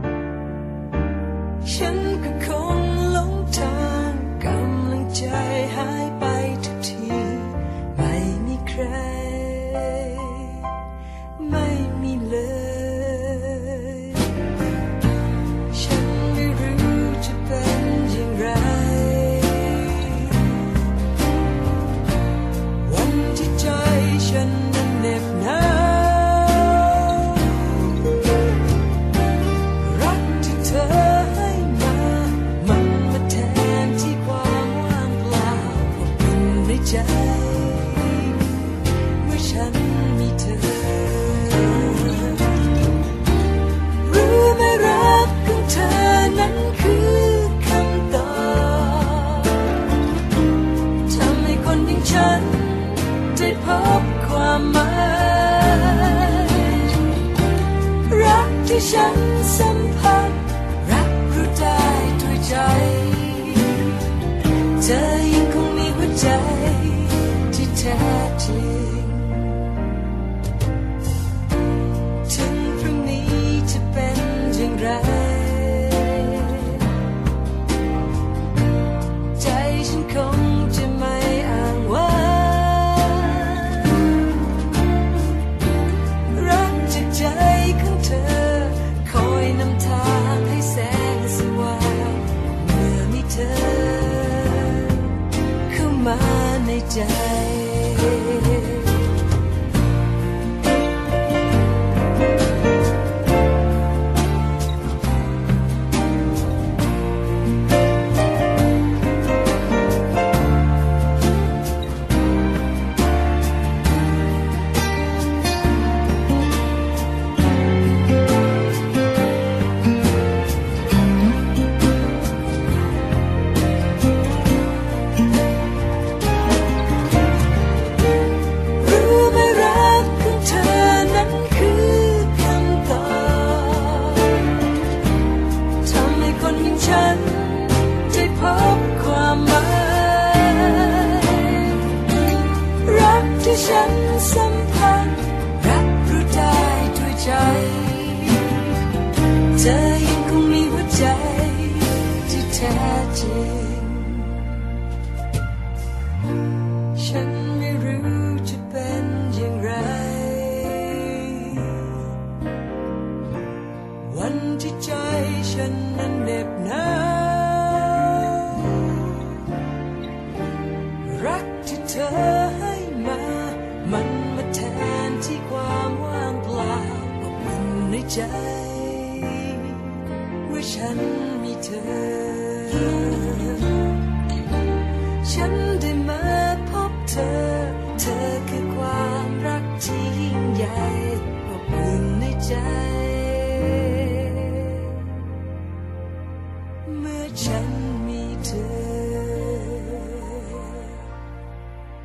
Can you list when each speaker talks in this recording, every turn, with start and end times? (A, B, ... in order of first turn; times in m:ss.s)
0:01.6-0:10.5 A
0:11.4-0:14.1 A
0:15.7-0:20.4 A
0:22.8-0:28.0 A
0:29.8-0:42.6 A
0:44.0-0:49.6 A
0:51.1-0:56.9 A
0:58.1-1:04.0 A
1:04.8-1:09.6 A
1:12.3-1:16.8 A
1:19.4-1:24.1 A
1:26.3-1:35.1 A
1:35.7-1:39.0 A
2:08.8-2:14.5 A
2:15.8-2:21.8 A
2:22.8-2:28.6 A
2:29.6-2:34.4 A
2:37.0-2:41.9 A
2:44.0-2:49.0 A
2:51.0-2:59.8 A
3:00.4-3:03.9 A
3:05.2-3:14.7 A
3:16.9-3:20.6 A